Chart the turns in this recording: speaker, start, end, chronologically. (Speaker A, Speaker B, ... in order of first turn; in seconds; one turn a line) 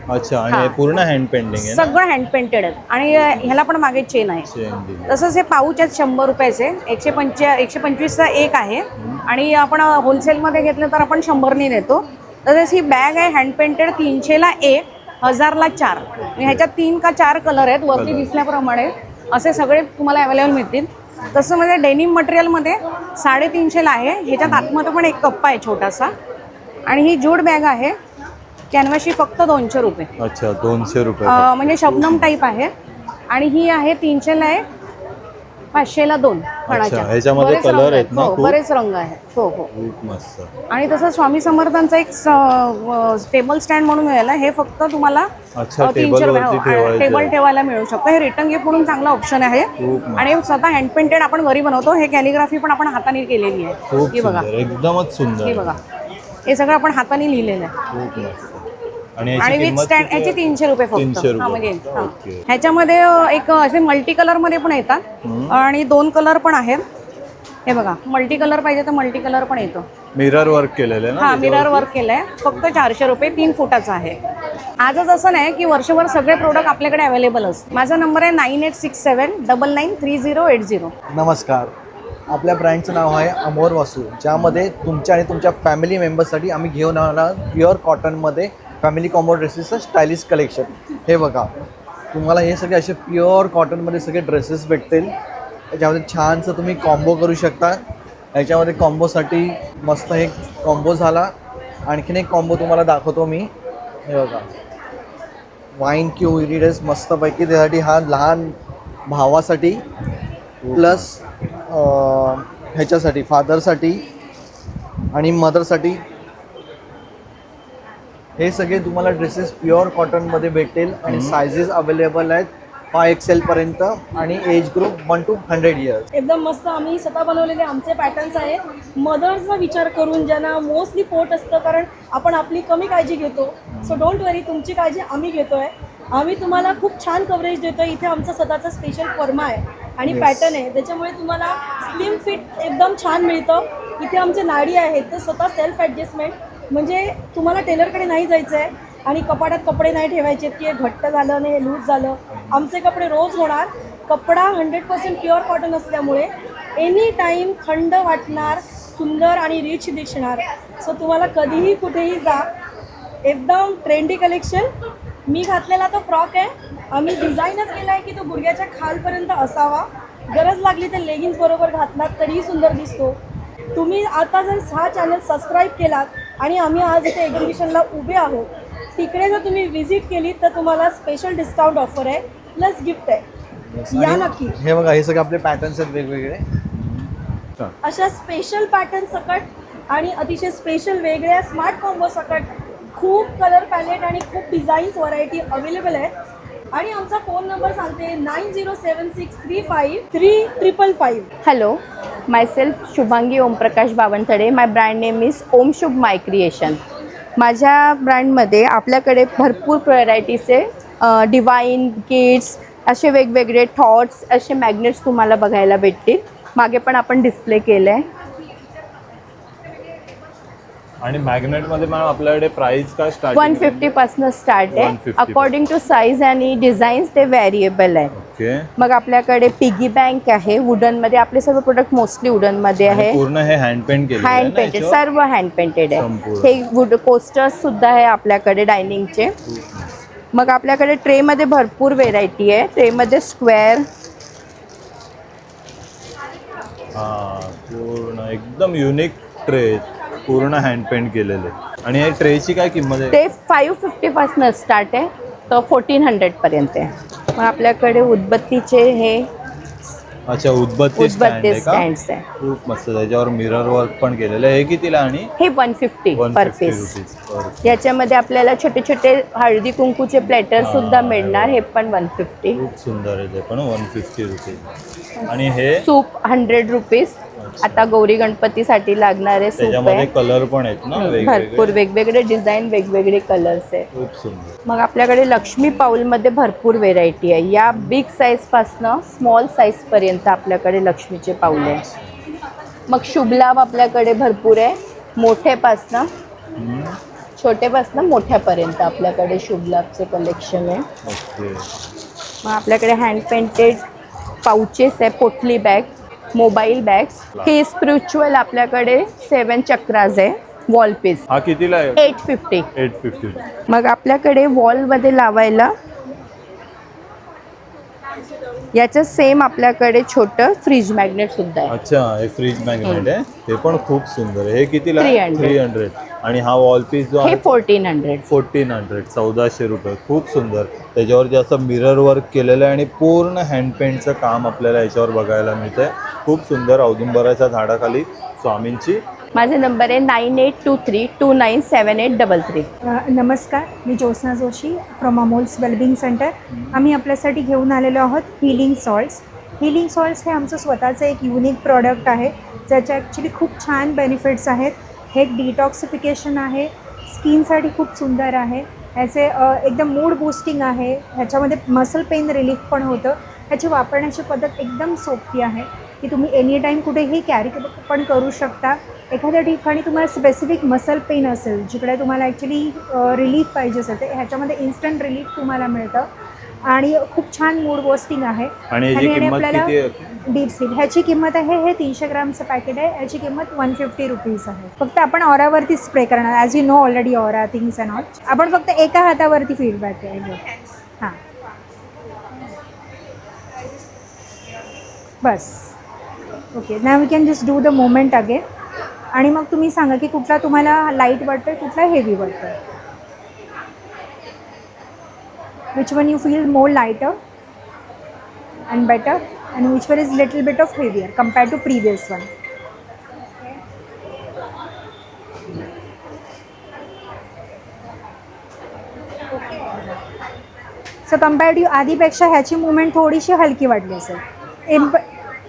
Speaker A: 0.1-2.0
Speaker B: 0.5-0.8
Speaker B: 1.6-4.5
Speaker A: 3.2-3.5
Speaker A: 4.4-5.2
Speaker B: 5.1-26.1
Speaker A: 9.0-9.2
Speaker A: 16.2-16.7
Speaker A: 17.9-18.3
Speaker A: 24.4-24.7
Speaker B: 26.9-28.0
Speaker B: 28.7-30.1
Speaker A: 30.2-32.3
Speaker B: 31.3-32.7
Speaker B: 33.3-34.6
Speaker B: 35.7-39.7
Speaker A: 36.7-38.6
Speaker A: 39.7-40.5
Speaker B: 40.7-45.3
Speaker A: 45.5-47.3
Speaker B: 45.8-54.5
Speaker A: 49.8-50.3
Speaker A: 53.9-55.8
Speaker B: 55.4-55.8
Speaker B: 56.5-57.7
Speaker A: 57.9-60.4
Speaker B: 59.4-65.0
Speaker A: 60.9-62.4
Speaker A: 65.2-65.6
Speaker B: 65.5-66.8
Speaker B: 67.7-69.8
Speaker A: 70.2-71.9
Speaker B: 71.2-74.2
Speaker A: 72.5-72.8
Speaker B: 74.8-80.9
Speaker C: 81.1-81.7
Speaker C: 82.3-91.5
Speaker C: 92.1-95.1
Speaker C: 95.7-97.8
Speaker C: 98.3-101.3
Speaker C: 101.9-103.5
Speaker C: 104.1-104.5
Speaker C: 105.8-109.8
Speaker A: 110.6-111.1
Speaker C: 110.7-114.1
Speaker C: 115.1-116.0
Speaker C: 118.4-126.0
Speaker A: 121.1-121.4
Speaker D: 126.2-162.5
Speaker A: 133.8-134.0
Speaker C: 140.1-140.5
Speaker A: 152.3-152.6
Speaker D: 163.2-164.7
Speaker D: 165.3-173.2
Speaker D: 173.8-183.2
Speaker C: 183.9-186.4
Speaker D: 183.9-184.6
Speaker A: 186.8-187.7
Speaker D: 187.8-196.1
Speaker D: 196.7-201.3
Speaker E: 201.4-206.8
Speaker E: 207.4-218.1
Speaker A: 221.0-223.9
Speaker E: 223.3-228.1
Speaker A: 224.7-225.5
Speaker A: 228.2-228.7
Speaker E: 228.8-233.2
Speaker A: 232.9-235.0
Speaker E: 234.2-239.3
Speaker A: 235.9-236.5
Speaker A: 239.5-239.9
Speaker E: 240.3-243.9
Speaker A: 246.9-253.2
Speaker E: 253.1-259.3
Speaker A: 260.3-261.9
Speaker E: 261.0-262.2
Speaker A: 262.4-265.3
Speaker E: 265.4-267.0
Speaker A: 266.1-267.9
Speaker E: 267.6-272.6
Speaker A: 270.6-271.6
Speaker A: 272.6-274.7
Speaker A: 275.3-275.9
Speaker E: 275.3-280.1
Speaker A: 277.4-277.9
Speaker A: 279.6-281.8
Speaker E: 281.0-283.9
Speaker A: 283.9-284.6
Speaker E: 284.7-291.8
Speaker A: 291.6-292.2
Speaker E: 292.9-296.1
Speaker A: 296.6-297.0
Speaker E: 297.4-300.9
Speaker A: 301.1-301.7
Speaker E: 302.4-303.8
Speaker E: 304.4-311.2
Speaker A: 311.3-312.1
Speaker E: 312.0-312.7
Speaker A: 312.8-313.4
Speaker E: 313.7-315.7
Speaker E: 318.7-321.7
Speaker A: 321.7-327.6
Speaker E: 322.8-323.1
Speaker E: 325.0-325.6
Speaker E: 327.2-328.2
Speaker A: 328.3-339.0
Speaker E: 339.4-342.7
Speaker F: 342.9-376.1
Speaker A: 346.5-346.8
Speaker F: 376.6-379.7
Speaker A: 378.7-380.0
Speaker F: 380.3-390.5
Speaker F: 395.2-395.7
Speaker F: 396.5-398.4
Speaker F: 399.1-402.6
Speaker F: 405.8-407.2
Speaker F: 408.7-412.3
Speaker F: 421.1-425.0